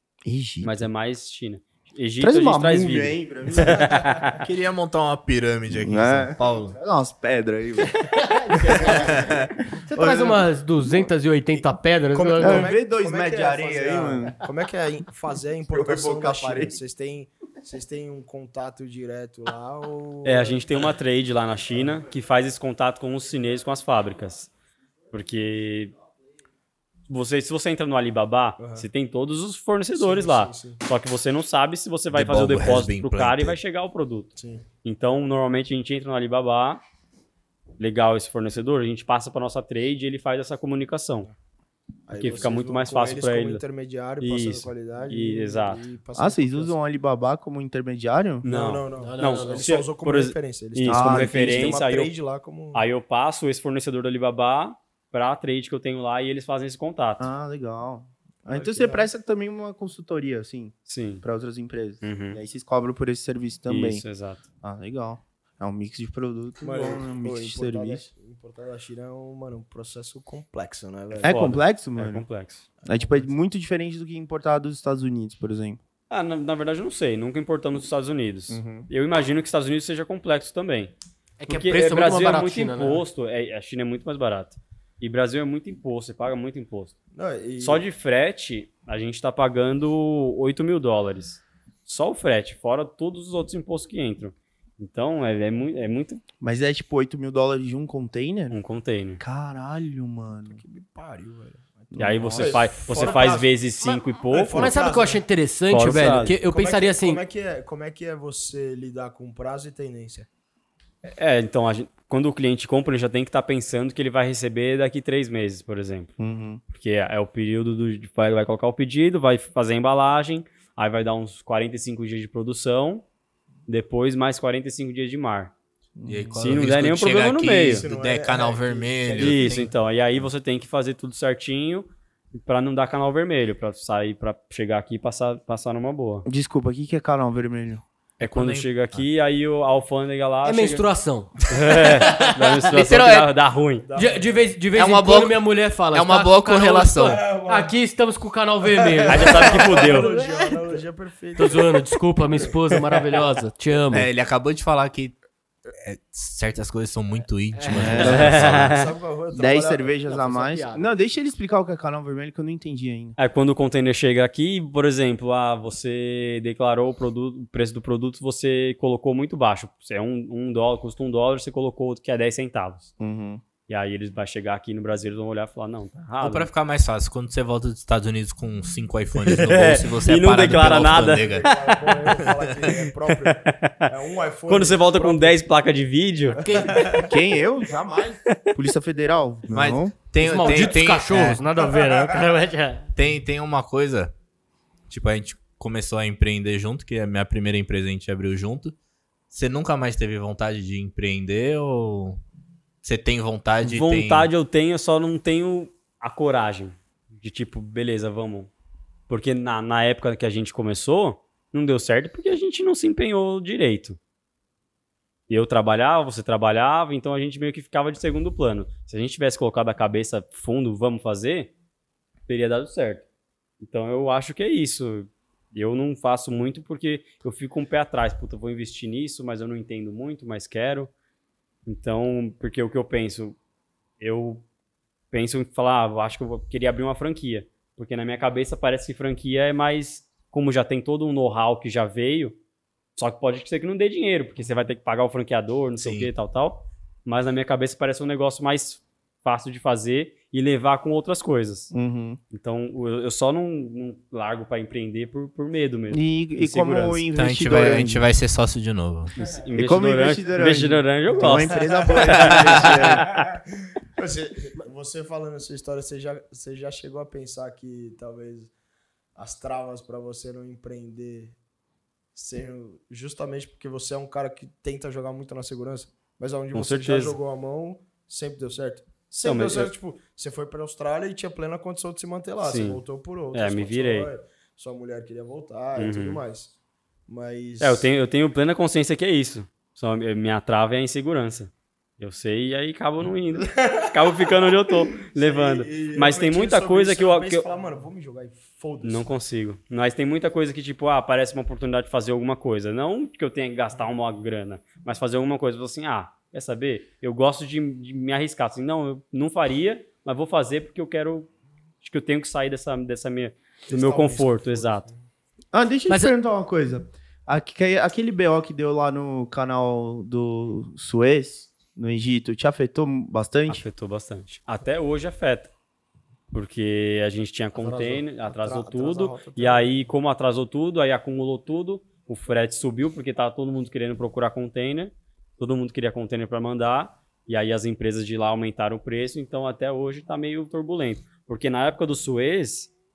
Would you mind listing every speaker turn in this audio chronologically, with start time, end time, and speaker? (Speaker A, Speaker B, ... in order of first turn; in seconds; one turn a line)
Speaker A: 0.2-0.9
Speaker B: 0.6-4.4
Speaker A: 2.2-4.1
Speaker C: 4.4-6.8
Speaker A: 5.7-8.1
Speaker D: 7.9-9.3
Speaker C: 9.0-9.5
Speaker D: 9.8-12.7
Speaker A: 9.9-10.5
Speaker E: 12.1-20.6
Speaker A: 12.4-14.4
Speaker A: 15.7-16.8
Speaker B: 20.2-24.5
Speaker B: 25.1-25.9
Speaker B: 27.1-36.8
Speaker E: 28.6-28.9
Speaker E: 29.9-30.8
Speaker C: 32.1-33.6
Speaker E: 34.4-34.6
Speaker B: 37.8-41.3
Speaker E: 42.1-46.8
Speaker B: 42.1-43.6
Speaker D: 42.2-42.5
Speaker B: 44.2-45.8
Speaker A: 46.1-48.4
Speaker B: 48.4-52.1
Speaker E: 48.4-52.8
Speaker D: 49.0-49.7
Speaker A: 50.8-51.8
Speaker B: 52.7-57.3
Speaker A: 57.2-64.0
Speaker E: 58.5-59.1
Speaker B: 60.9-61.2
Speaker B: 62.0-62.4
Speaker B: 63.7-64.4
Speaker A: 64.6-68.0
Speaker E: 66.6-71.4
Speaker A: 71.2-72.2
Speaker B: 71.2-72.6
Speaker E: 72.8-73.3
Speaker A: 72.8-75.8
Speaker B: 76.1-80.9
Speaker A: 78.5-78.9
Speaker D: 81.4-83.0
Speaker B: 81.5-87.0
Speaker E: 87.1-87.8
Speaker B: 87.6-96.2
Speaker A: 96.4-98.6
Speaker B: 98.5-99.2
Speaker A: 99.2-100.6
Speaker E: 100.5-103.6
Speaker A: 101.9-103.0
Speaker B: 102.0-104.7
Speaker E: 104.3-105.2
Speaker D: 104.5-107.2
Speaker B: 105.7-106.3
Speaker E: 105.8-110.3
Speaker B: 111.0-116.1
Speaker A: 116.2-116.6
Speaker B: 116.7-123.0
Speaker B: 123.7-125.5
Speaker A: 126.0-126.5
Speaker C: 126.0-129.7
Speaker B: 126.4-127.8
Speaker E: 127.7-129.7
Speaker B: 129.2-136.2
Speaker A: 136.2-137.8
Speaker B: 138.2-140.9
Speaker C: 138.2-139.0
Speaker D: 140.4-142.5
Speaker B: 141.5-143.9
Speaker C: 142.7-143.3
Speaker E: 143.8-144.4
Speaker D: 143.9-150.8
Speaker C: 144.7-147.2
Speaker E: 147.2-147.7
Speaker E: 148.9-153.2
Speaker B: 149.1-150.1
Speaker D: 151.3-154.1
Speaker C: 153.9-155.2
Speaker C: 155.8-158.8
Speaker D: 157.5-158.2
Speaker A: 157.7-158.6
Speaker B: 158.0-158.9
Speaker E: 158.2-159.9
Speaker A: 159.3-163.2
Speaker D: 160.1-160.9
Speaker B: 163.2-172.9
Speaker A: 173.0-173.4
Speaker B: 173.7-176.5
Speaker C: 176.2-181.5
Speaker B: 179.2-182.3
Speaker E: 180.6-185.3
Speaker B: 183.1-183.8
Speaker B: 184.5-186.7
Speaker E: 186.3-187.1
Speaker D: 186.4-187.0
Speaker A: 187.0-189.9
Speaker C: 189.5-191.4
Speaker D: 190.2-192.9
Speaker C: 192.9-194.1
Speaker C: 194.9-198.7
Speaker C: 199.3-202.2
Speaker C: 202.8-204.3
Speaker B: 203.6-208.5
Speaker B: 209.1-214.0
Speaker B: 215.3-221.5
Speaker B: 222.3-223.0
Speaker B: 223.6-230.9
Speaker B: 231.7-233.3
Speaker B: 234.0-234.4
Speaker B: 235.1-242.4
Speaker B: 242.9-251.7
Speaker C: 245.8-246.1
Speaker A: 251.7-252.2
Speaker B: 252.3-257.0
Speaker A: 255.9-258.1
Speaker C: 257.1-259.1
Speaker B: 259.1-263.2
Speaker A: 259.5-263.1
Speaker E: 261.2-263.3
Speaker C: 262.2-262.8
Speaker E: 263.9-268.5
Speaker E: 269.1-271.4
Speaker E: 272.1-286.5
Speaker B: 276.5-277.2
Speaker B: 279.2-279.7
Speaker B: 282.4-282.8
Speaker B: 283.3-284.1
Speaker B: 285.8-286.2
Speaker E: 287.1-287.9
Speaker B: 287.6-297.4
Speaker E: 295.1-299.1
Speaker B: 298.8-311.3
Speaker B: 311.8-314.9
Speaker E: 313.7-315.0
Speaker A: 315.5-323.6
Speaker D: 315.9-316.1
Speaker B: 323.5-325.5
Speaker B: 326.3-342.7
Speaker E: 327.6-329.9